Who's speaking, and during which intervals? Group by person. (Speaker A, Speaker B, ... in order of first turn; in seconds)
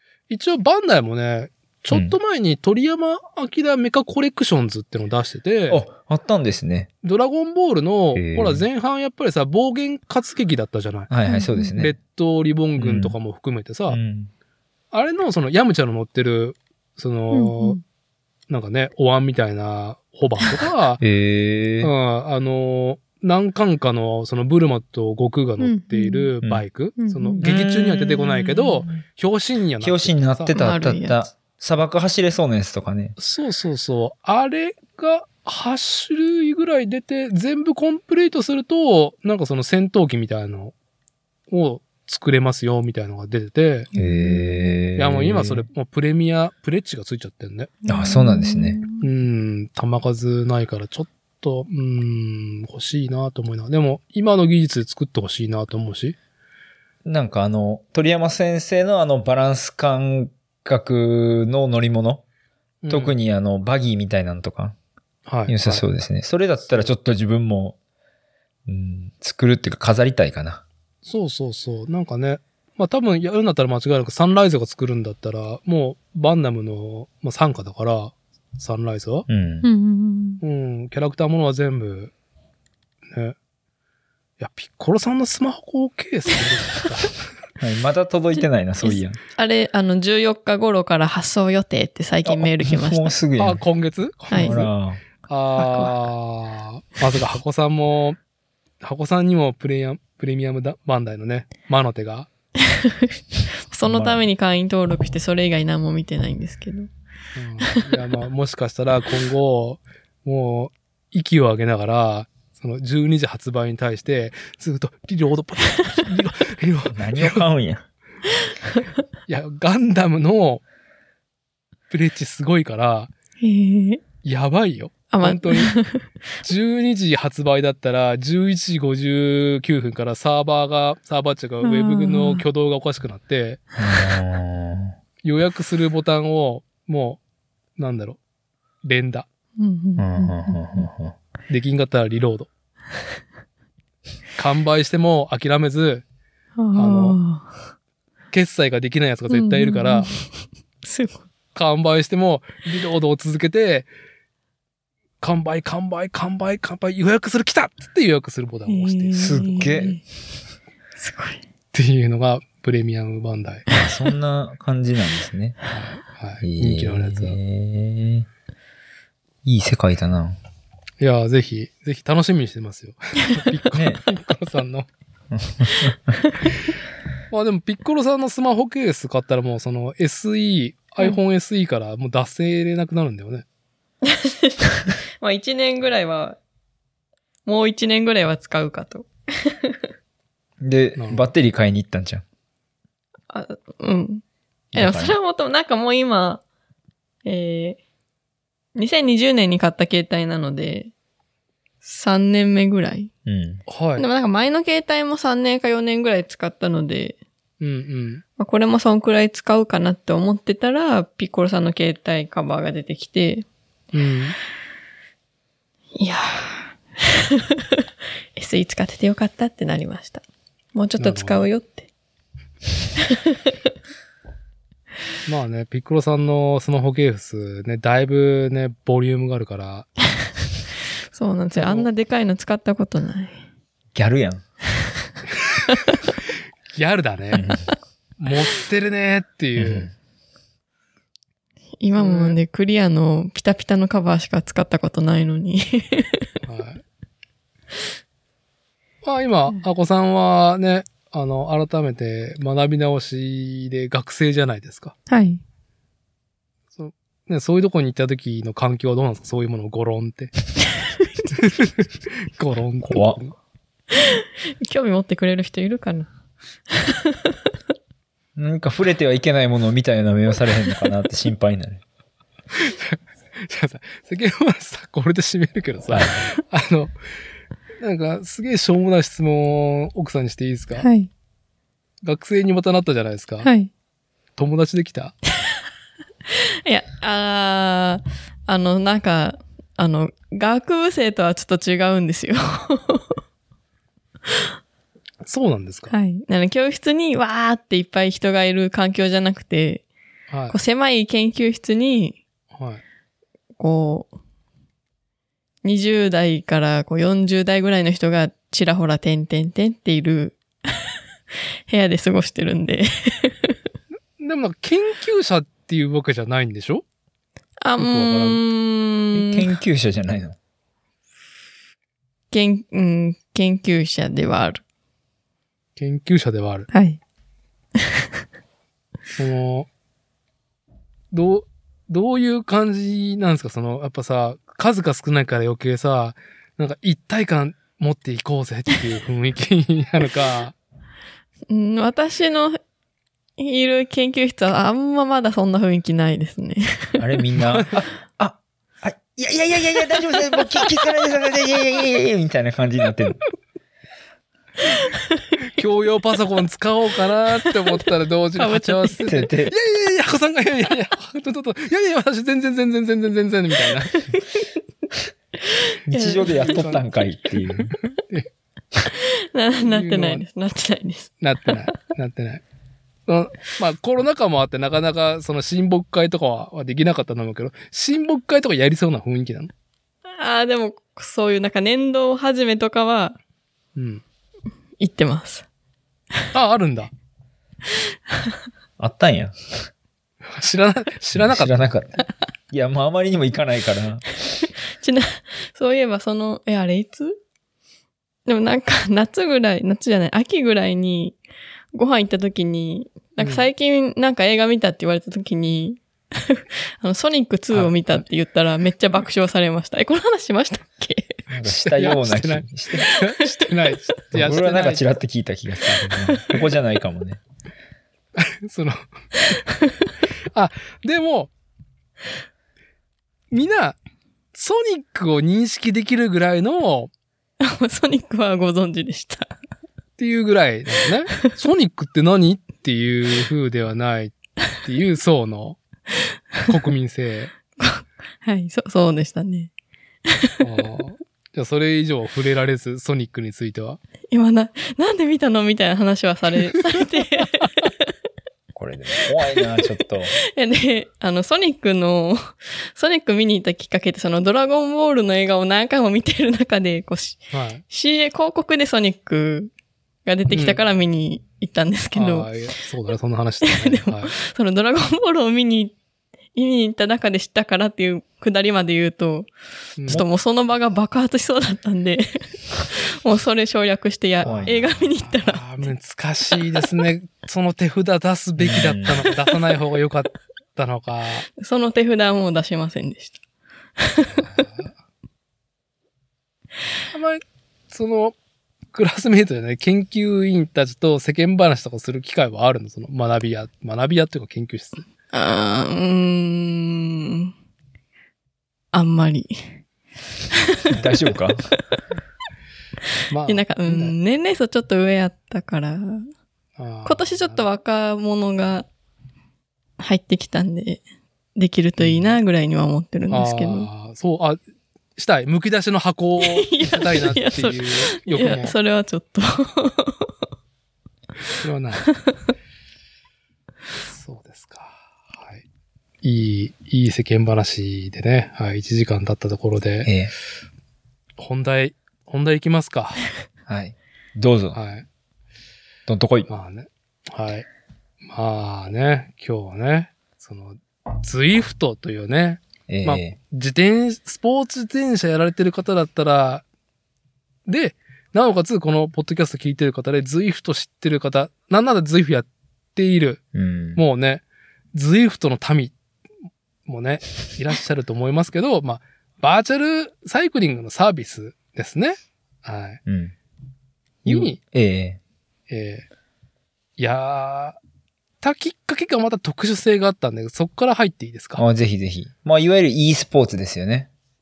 Speaker A: 0.3-5.8, 7.0-11.1, 11.8-14.0, 14.9-17.8, 18.5-21.0, 21.8-30.5, 33.2-40.8, 41.5-43.9, 45.0-47.7, 49.0-56.2, 62.8-63.1, 65.3-65.8, 66.7-66.9, 71.0-79.3, 80.4-82.1, 84.4-87.2, 93.4-94.7, 95.3-98.2, 98.8-102.3, 107.4-117.4, 119.3-120.6, 121.9-123.1, 124.2-125.7, 126.4-133.6, 135.2-137.2, 137.8-138.2, 138.8-139.3, 141.5-142.5, 144.4-146.0, 146.7-147.2, 148.3-150.1, 151.5-153.9, 155.2-159.7, 161.7-163.7, 165.7-167.4, 171.0-174.9, 177.3-183.4, 191.0-191.3, 203.7-204.1, 207.6-208.2, 213.9-214.4, 221.0-221.5, 225.3-229.9, 231.6-231.9, 236.7-237.4, 238.2-239.9, 241.9-242.4, 246.4-246.8, 249.0-255.0, 256.8-260.3, 261.4-263.4, 272.5-276.9, 277.8-280.9, 282.0-283.5, 284.4-285.2, 295.3-295.9, 300.3-300.6, 302.5-302.8, 314.2-316.8, 317.8-318.4, 325.8-326.7, 329.2-329.7, 331.1-340.6, 355.5-364.1, 366.2-366.9, 367.9-368.3, 369.6-370.2, 371.2-372.4, 373.1-379.5, 383.8-384.0, 386.3-386.9, 390.3-391.7, 403.2-403.5, 407.5-408.0, 411.5-414.9, 418.2-418.8, 420.3-421.3, 423.3-423.8, 424.3-426.9, 430.0-435.6, 436.5-437.3, 440.4-443.8, 457.3-457.6, 460.3-460.6, 461.9-464.1, 469.8-470.0, 474.2-481.3, 484.2-484.7, 486.9-488.2, 488.7-494.9, 503.1-504.0, 506.6-507.4, 511.8-512.1, 513.1-514.4, 515.0-518.6, 521.4-521.9, 523.9-525.4, 526.0-529.9, 531.2-533.0, 534.5-534.9, 536.3-537.5, 538.1-546.4, 547.5-553.2, 553.8-555.7, 556.7-562.8, 564.0-564.4, 565.5-565.9, 566.8-567.6, 568.2-571.4
Speaker B: 5.7-6.9, 8.1-8.7, 11.1-12.0, 12.8-13.2, 13.9-14.3, 21.0-21.9, 27.4-28.2, 29.8-33.2, 44.0-45.7, 47.9-48.8, 57.0-62.2, 62.9-64.8, 65.5-67.8, 68.7-70.6, 79.3-79.7, 87.6-89.2, 92.3-93.6, 94.3-95.0, 103.8-104.2, 116.9-117.8, 133.8-134.9, 140.0-141.2, 159.2-160.0, 163.7-165.6, 166.4-168.3, 169.4-170.4, 173.7-174.0, 175.3-176.2, 190.6-192.2, 194.7-195.2, 203.3-203.6, 233.9-234.4, 237.3-237.6, 239.6-239.9, 262.8-263.2, 268.4-271.8, 275.9-276.2, 319.1-320.4, 347.0-353.2, 359.1-359.5, 365.9-367.8, 388.8-389.7, 391.1-394.4, 411.3-412.9, 414.1-417.2, 448.6-450.2, 474.3-474.7, 478.4-479.1, 500.7-501.5, 529.9-530.1, 533.5-534.6, 535.9-536.3, 542.7-543.2, 553.3-553.8, 562.9-563.1, 564.0-565.0, 571.4-573.9
Speaker C: 11.3-11.7, 17.3-17.8, 25.6-26.3, 27.0-27.4, 28.3-28.9, 30.5-31.2, 44.0-44.5, 47.8-49.0, 79.6-80.4, 88.8-93.2, 94.3-94.6, 95.6-95.9, 102.7-106.9, 107.6-107.9, 123.4-124.0, 125.1-126.0, 131.6-132.4, 139.6-140.8, 146.6-147.5, 149.3-150.3, 150.8-151.2, 158.7-160.0, 161.0-161.4, 184.0-186.4, 187.4-189.8, 193.3-194.2, 194.7-196.4, 197.2-197.8, 198.8-200.9, 201.8-203.1, 204.0-207.2, 208.4-213.5, 216.0-217.8, 218.4-221.9, 231.1-233.4, 241.8-246.3, 255.1-255.4, 263.9-266.1, 266.7-267.4, 280.8-281.1, 283.4-283.7, 286.6-293.1, 295.9-299.9, 300.5-302.2, 303.6-304.1, 305.6-310.4, 311.7-313.6, 317.6-319.5, 322.3-324.6, 326.7-327.0, 341.5-342.6, 343.4-347.2, 354.6-355.2, 358.4-359.1, 363.9-364.2, 365.4-366.6, 368.9-371.5, 380.1-383.2, 384.8-385.5, 394.8-397.2, 398.3-401.2, 401.7-411.2, 412.8-413.1, 415.9-416.4, 419.3-419.9, 427.4-429.3, 437.6-439.5, 440.1-440.4, 444.1-447.9, 449.2-449.7, 450.2-459.5, 460.1-462.3, 463.4-465.8, 466.3-469.3, 469.9-475.6, 481.4-483.2, 483.8-484.4, 495.1-497.3, 498.7-499.5, 503.3-506.1, 506.9-508.7, 509.8-510.8, 511.4-513.7, 516.2-520.1